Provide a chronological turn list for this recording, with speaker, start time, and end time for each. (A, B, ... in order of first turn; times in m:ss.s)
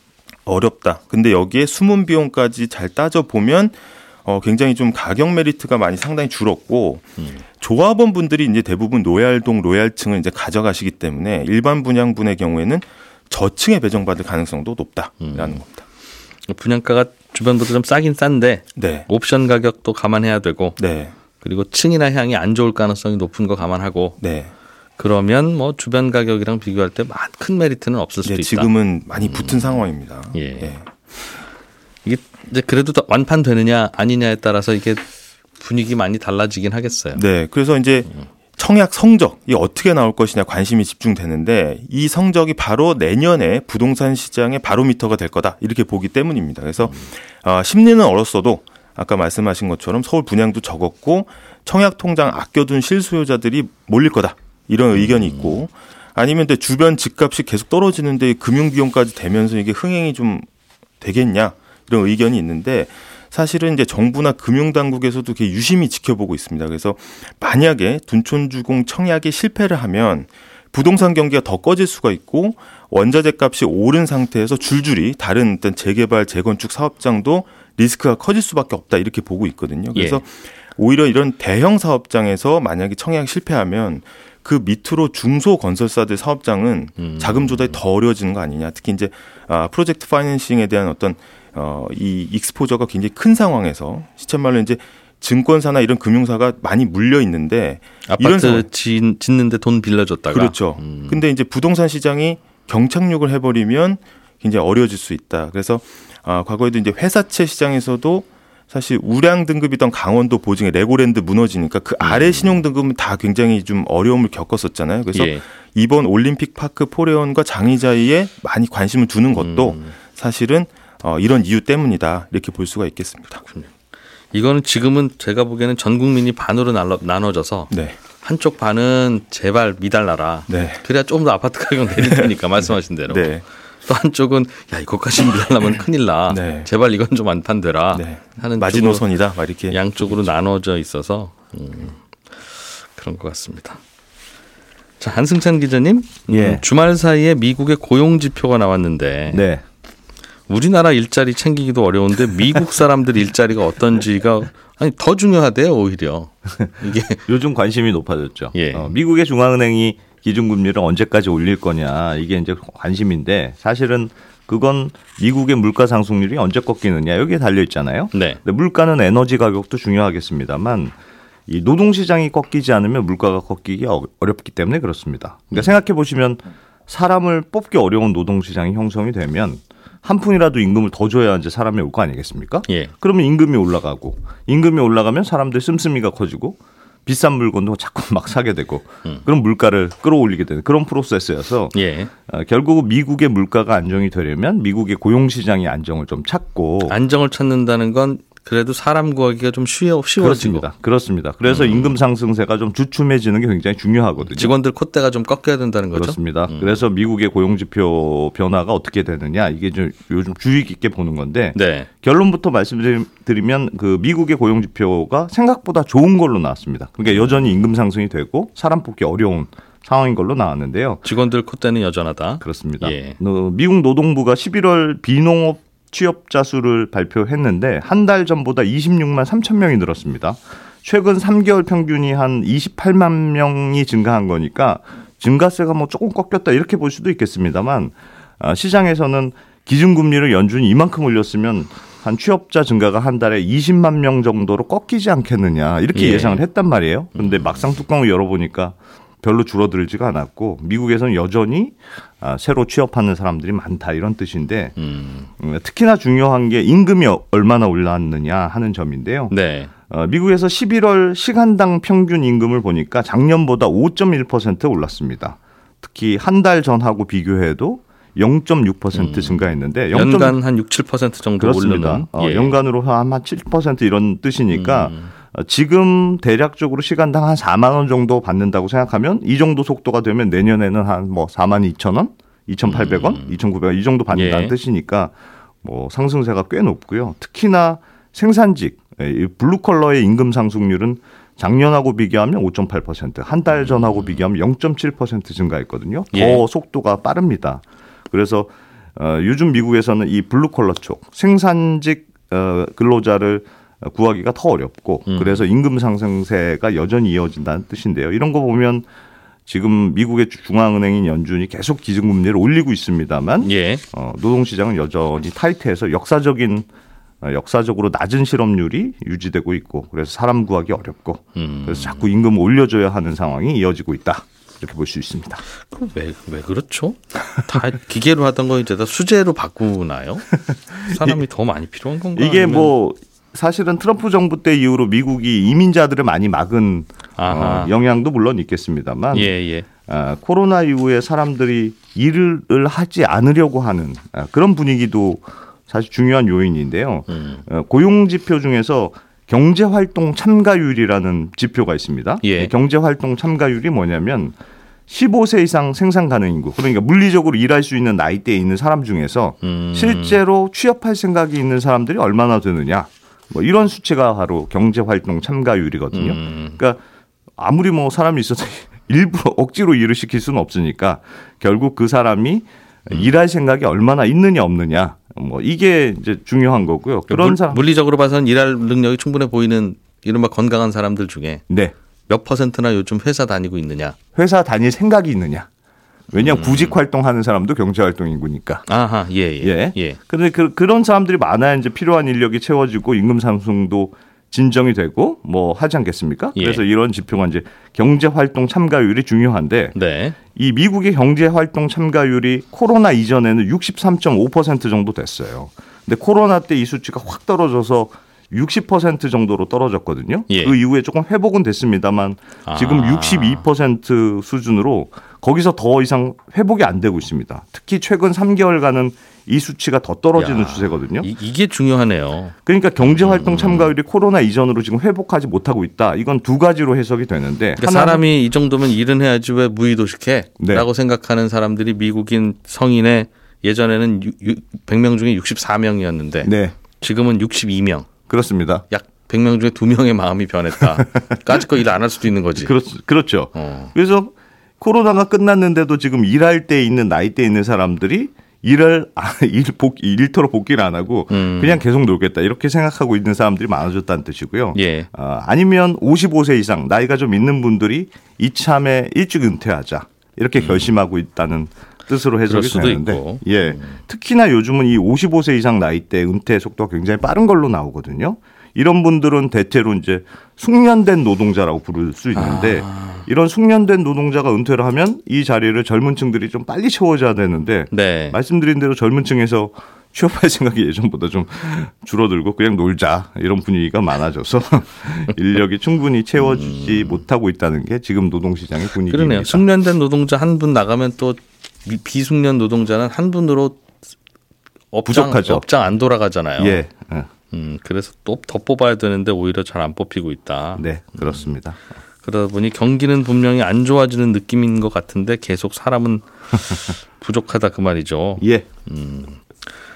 0:00.5-0:15.8 A
0:15.2-0:15.6 B
0:16.5-0:20.8 B
0:18.8-0:19.1 A
0:20.8-0:21.1 A
0:21.4-0:24.2 B
0:24.2-0:24.5 A
0:25.0-0:28.7 B
0:28.3-0:30.8 A
0:29.3-0:29.6 B
0:30.3-0:30.8 B
0:32.1-0:35.1 B
0:35.6-0:37.2 B
0:37.2-1:00.5 A
0:55.0-0:55.6 B
1:01.0-1:38.6 A
1:20.0-1:20.2 B
1:27.0-1:27.8 B
1:38.1-1:41.2 B
1:40.3-2:03.4 A
1:52.0-1:52.6 B
1:55.1-1:55.4 B
1:59.4-2:00.0 B
2:03.5-2:03.7 B
2:04.3-2:13.3 B
2:07.7-2:08.0 A
2:10.5-2:10.8 A
2:13.1-2:13.4 A
2:13.9-2:19.1 B
2:16.3-2:16.7 A
2:17.9-2:19.8 A
2:19.7-2:23.8 B
2:25.0-2:29.4 B
2:26.3-2:26.6 C
2:29.3-2:29.6 C
2:30.5-2:37.3 B
2:37.3-2:51.0 C
2:38.5-2:38.9 B
2:48.1-2:48.4 B
2:51.5-3:11.8 C
3:11.7-3:12.1 B
3:12.3-3:17.0 C
3:16.9-3:20.7 B
3:20.2-3:24.5 C
3:21.5-3:22.0 B
3:24.3-3:26.8 B
3:25.9-3:41.0 C
3:31.5-3:31.9 B
3:37.1-3:37.5 B
3:41.0-3:43.2 B
3:42.4-4:14.8 C
4:06.0-4:06.4 B
4:07.2-4:07.6 B
4:14.8-4:15.3 B
4:15.4-4:19.3 C
4:19.3-4:19.7 B
4:19.9-4:30.4 C
4:28.9-4:32.6 B
4:31.4-5:08.9 C
4:34.5-4:35.1 B
4:42.7-4:43.3 B
4:44.1-4:44.5 B
4:53.6-4:54.2 B
4:56.1-4:56.4 B
5:05.1-5:05.4 B
5:09.5-5:16.7 C
5:13.4-5:13.8 B
5:17.2-5:25.4 C
5:21.4-5:22.1 B
5:25.6-5:32.7 B
5:30.5-5:31.2 C
5:32.2-5:39.3 C
5:37.2-5:37.7 B
5:39.1-5:39.7 B
5:39.9-5:54.4 C
5:47.1-5:47.4 B
5:52.2-5:52.5 B
5:54.9-6:06.8 C
5:59.4-6:00.2 B
6:05.9-6:06.6 B
6:07.4-6:17.6 C
6:17.1-6:21.4 B
6:21.5-6:21.7 C
6:22.1-6:24.0 B
6:24.2-6:25.5 C
6:26.1-6:28.7 C
6:26.2-6:26.8 B
6:28.7-6:30.0 B
6:29.4-6:39.8 C
6:36.4-6:36.6 B
6:39.7-6:40.2 B
6:40.3-7:01.1 C
6:50.3-6:50.6 B
6:52.5-6:53.4 B
7:00.2-7:03.7 B
7:02.5-7:08.0 C
7:07.6-7:17.9 B
7:10.4-7:10.7 C
7:16.2-7:16.6 C
7:18.1-7:18.6 C
7:18.7-7:22.5 B
7:20.8-7:21.2 C
7:22.4-8:09.5 C
7:23.3-7:23.7 B
7:31.1-7:31.6 B
7:34.5-7:34.9 B
7:40.4-7:40.7 B
7:42.2-7:43.8 B
7:52.2-7:53.1 B
7:57.7-7:58.2 B
8:06.2-8:07.0 B
8:08.9-8:13.7 B
8:14.7-8:16.6 B
8:14.9-8:15.4 C
8:16.4-8:17.1 C
8:17.3-8:21.3 B
8:20.6-8:21.6 C
8:22.0-8:29.2 B
8:28.2-8:28.5 C